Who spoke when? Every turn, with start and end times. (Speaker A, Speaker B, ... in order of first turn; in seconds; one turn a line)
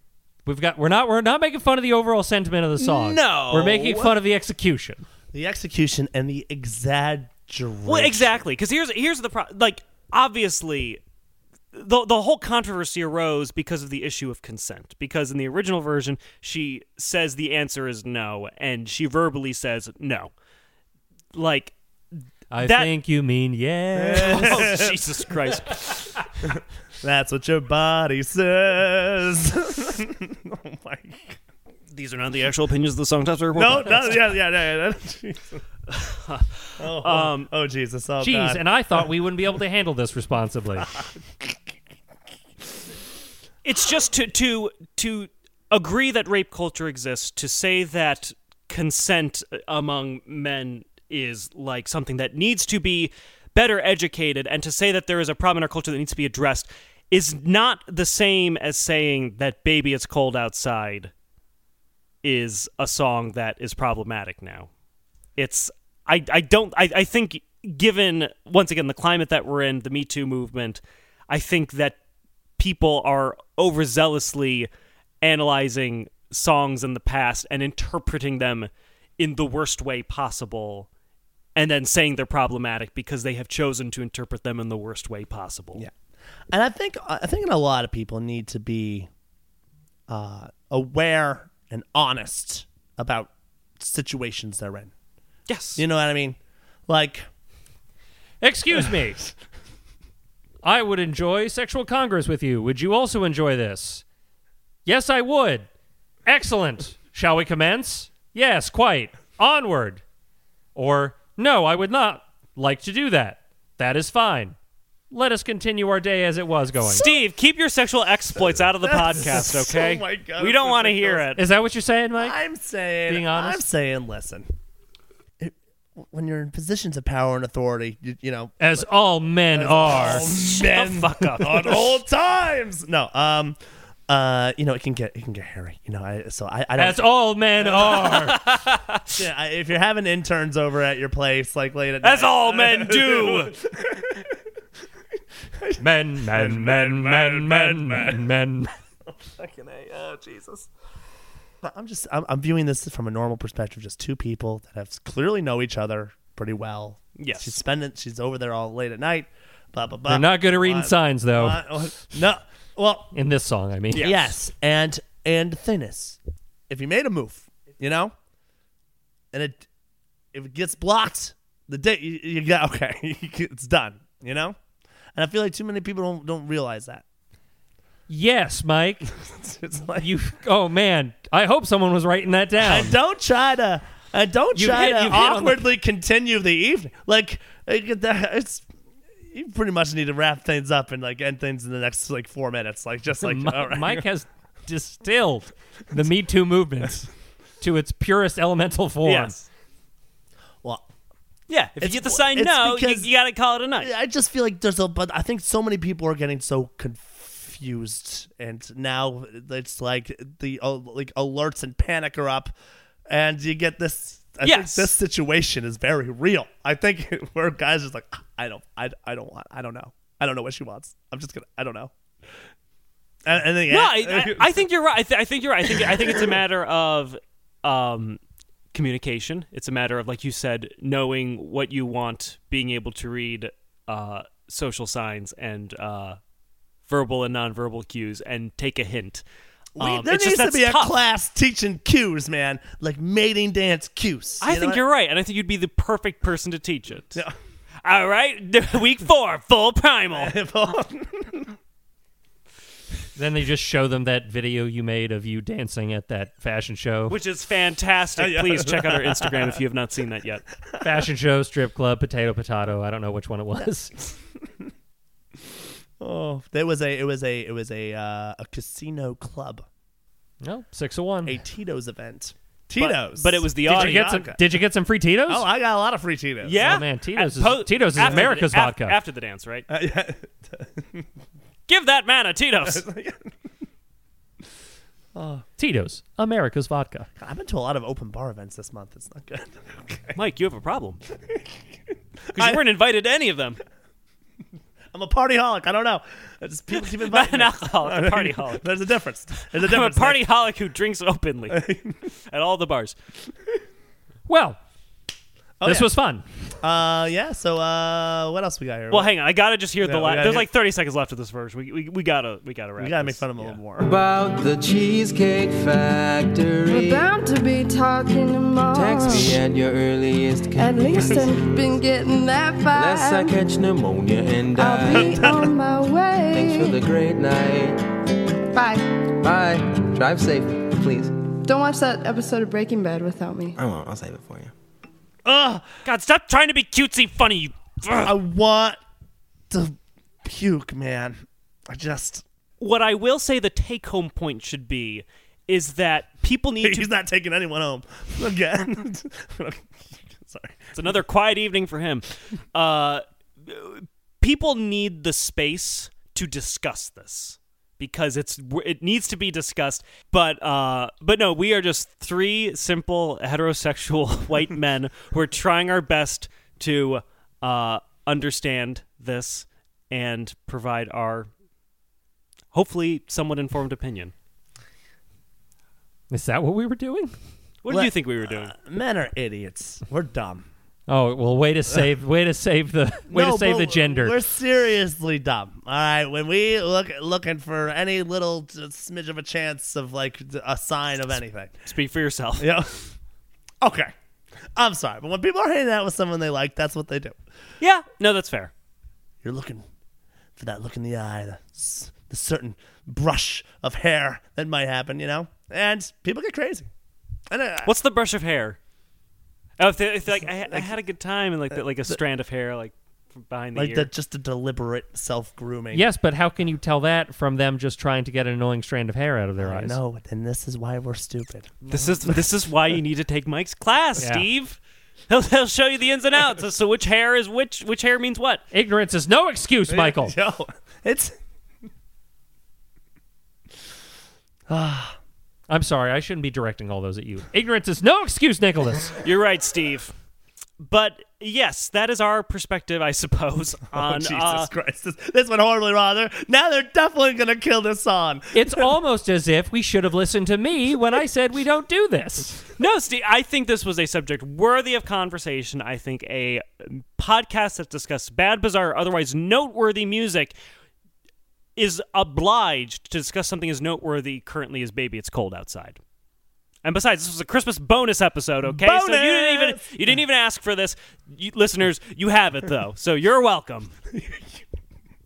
Speaker A: 0.5-5.0
Speaker B: 2.9-4.0
Speaker C: 2.9-4.1
Speaker C: 5.3-8.4
Speaker B: 7.8-11.0
Speaker B: 11.7-20.3
Speaker B: 21.3-22.9
Speaker A: 22.5-24.7
Speaker C: 23.9-25.0
Speaker B: 24.3-25.9
Speaker C: 27.0-31.4
Speaker B: 31.9-34.3
Speaker C: 33.5-35.6
Speaker B: 35.9-37.5
Speaker C: 36.8-39.0
Speaker A: 38.2-40.9
Speaker C: 40.8-41.5
Speaker B: 43.6-61.1
Speaker B: 62.2-64.7
Speaker B: 65.4-72.0
Speaker B: 72.6-74.7
Speaker B: 75.2-80.9
Speaker B: 81.5-85.8
Speaker C: 86.5-89.1
Speaker C: 90.1-94.9
Speaker B: 95.5-95.8
Speaker C: 95.8-97.3
Speaker A: 98.4-99.2
Speaker A: 100.6-104.0
Speaker A: 104.8-105.7
Speaker A: 106.2-110.0
Speaker A: 110.7-114.5
Speaker A: 115.1-117.1
Speaker B: 116.9-121.4
Speaker C: 118.5-121.3
Speaker A: 121.4-122.4
Speaker C: 122.2-124.5
Speaker A: 123.1-123.6
Speaker C: 125.4-128.9
Speaker A: 128.6-130.2
Speaker C: 129.5-133.6
Speaker B: 130.0-131.9
Speaker C: 134.1-137.0
Speaker A: 136.8-138.5
Speaker C: 137.6-138.3
Speaker B: 137.9-139.0
Speaker C: 139.1-144.4
Speaker B: 142.0-143.5
Speaker C: 145.6-148.3
Speaker A: 145.8-148.7
Speaker C: 149.1-150.7
Speaker C: 151.6-163.1
Speaker B: 157.2-157.6
Speaker A: 160.1-161.6
Speaker A: 163.1-164.2
Speaker B: 163.9-164.3
Speaker C: 163.9-168.1
Speaker C: 169.3-169.6
Speaker C: 170.3-174.6
Speaker C: 175.1-177.0
Speaker A: 178.1-179.1
Speaker C: 179.2-180.1
Speaker A: 180.0-182.9
Speaker C: 182.6-188.7
Speaker A: 184.5-185.7
Speaker C: 189.3-194.1
Speaker A: 193.2-197.1
Speaker A: 197.6-199.4
Speaker B: 199.0-199.4
Speaker B: 201.5-203.9
Speaker C: 201.8-203.1
Speaker C: 203.8-212.5
Speaker C: 213.1-221.9
Speaker B: 214.4-214.9
Speaker C: 223.2-224.6
Speaker B: 223.7-228.2
Speaker C: 225.7-226.2
Speaker B: 228.7-236.2
Speaker B: 236.9-239.2
Speaker C: 239.8-244.8
Speaker B: 239.8-241.0
Speaker B: 244.4-247.2
Speaker B: 247.8-250.3
Speaker C: 250.1-251.6
Speaker A: 253.2-257.2
Speaker B: 257.1-260.4
Speaker C: 258.1-259.6
Speaker C: 260.7-261.0
Speaker A: 260.8-264.0
Speaker C: 266.0-269.6
Speaker A: 270.4-271.4
Speaker C: 271.2-274.4
Speaker B: 272.8-274.1
Speaker A: 273.7-275.5
Speaker C: 275.3-276.7
Speaker B: 276.4-279.6
Speaker A: 276.5-278.9
Speaker C: 278.0-278.3
Speaker C: 279.7-281.1
Speaker B: 281.7-282.9
Speaker C: 282.6-283.3
Speaker C: 285.1-285.4
Speaker A: 285.6-287.1
Speaker C: 287.2-290.2
Speaker B: 290.1-291.0
Speaker C: 291.2-291.5
Speaker C: 292.3-292.6
Speaker B: 292.3-293.6
Speaker C: 294.9-300.2
Speaker B: 296.8-298.6
Speaker B: 299.5-301.7
Speaker C: 301.5-302.0
Speaker B: 302.3-302.9
Speaker A: 304.3-304.6
Speaker C: 305.6-305.9
Speaker A: 305.6-306.2
Speaker C: 306.6-309.1
Speaker B: 308.9-313.6
Speaker C: 309.8-310.5
Speaker C: 312.8-313.9
Speaker D: 313.8-317.1
Speaker E: 316.6-319.4
Speaker D: 318.7-321.8
Speaker E: 320.5-323.4
Speaker D: 322.7-325.3
Speaker E: 324.5-326.8
Speaker C: 325.0-325.5
Speaker D: 326.3-327.8
Speaker E: 328.5-328.9
Speaker D: 329.2-331.1
Speaker E: 331.4-333.6
Speaker D: 333.6-334.5
Speaker C: 335.2-335.6
Speaker B: 335.8-338.1
Speaker C: 338.0-338.8
Speaker C: 339.5-342.2
Speaker B: 342.6-346.9
Speaker C: 346.6-350.7
Speaker B: 350.7-371.3
Speaker B: 372.5-374.1
Speaker A: 376.1-377.1
Speaker B: 377.6-378.5
Speaker C: 377.7-380.4
Speaker A: 380.9-384.1
Speaker C: 383.1-391.7
Speaker B: 391.6-392.5
Speaker C: 392.4-392.9
Speaker C: 393.6-393.9
Speaker C: 394.5-397.2
Speaker B: 397.6-398.5
Speaker C: 399.2-399.6
Speaker C: 400.4-406.7
Speaker C: 407.3-407.7
Speaker B: 407.6-408.6
Speaker B: 409.6-413.9
Speaker C: 410.2-410.7
Speaker C: 413.5-415.9
Speaker A: 415.7-419.8
Speaker C: 419.4-422.2
Speaker B: 421.6-424.6
Speaker A: 424.0-424.2
Speaker B: 425.1-428.4
Speaker A: 428.5-430.1
Speaker C: 429.7-431.1
Speaker C: 434.5-435.0
Speaker A: 435.5-438.9
Speaker B: 439.0-439.9
Speaker B: 440.6-444.5
Speaker C: 443.7-448.7
Speaker A: 448.3-452.4
Speaker B: 452.6-460.4
Speaker B: 461.6-465.8
Speaker B: 466.6-473.7
Speaker C: 468.4-469.6
Speaker C: 473.9-474.4